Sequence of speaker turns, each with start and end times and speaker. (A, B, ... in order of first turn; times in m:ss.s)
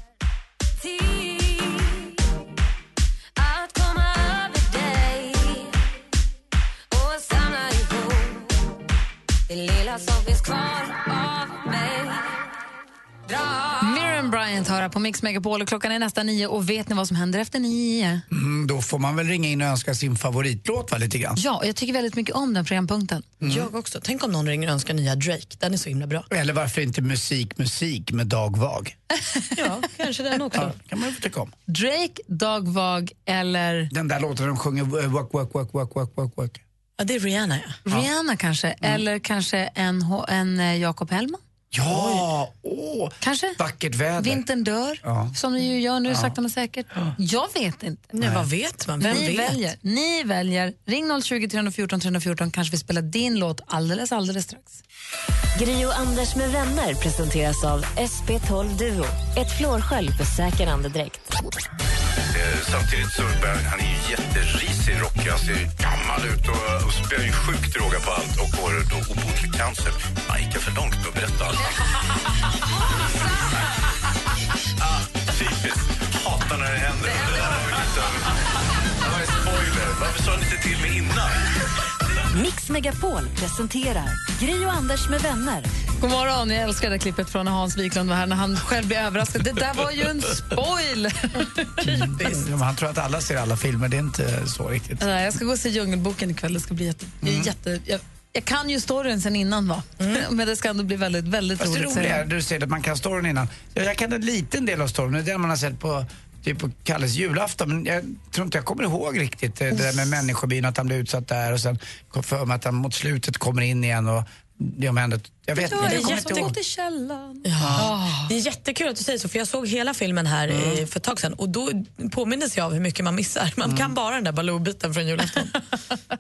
0:00.8-0:02.1 A
0:03.4-0:05.7 A
0:06.9-0:08.5 A
0:09.5-0:12.4 A
0:13.3-0:13.8 A
0:13.8-0:18.2 B
0:18.3-0:21.4 C
0:21.4-0:23.3 B
0:23.4-0:23.7 C
0:23.4-0:26.3 D
0:26.3-0:28.9 C
0:29.6-0:30.8 D
0:30.5-0:31.5 C
0:31.7-0:33.9 B
0:33.9-0:36.6 C
0:37.0-0:37.8 D
0:37.9-0:41.4 B
0:41.7-0:44.4 C
0:43.2-0:43.6 B
0:44.2-0:48.1 B
0:45.0-0:45.3 C
0:46.1-0:46.3 C
0:48.1-0:49.7 D
0:48.2-0:48.5 C
0:49.0-0:54.8 B
0:55.5-1:01.3 E
1:02.3-1:11.7 F
1:14.8-1:18.3 F
1:19.0-1:21.4 F
1:22.3-1:25.7 E
1:26.0-1:31.7 B
1:31.8-1:32.5 D
1:31.9-1:35.0 C
1:35.0-1:42.2 B
1:37.2-1:37.5 C
1:41.6-1:56.5 C
1:55.6-1:58.3 B
1:55.7-1:56.6 D
1:57.4-2:05.5 D
1:57.6-1:57.9 C
2:00.5-2:00.8 C
2:03.6-2:03.9 C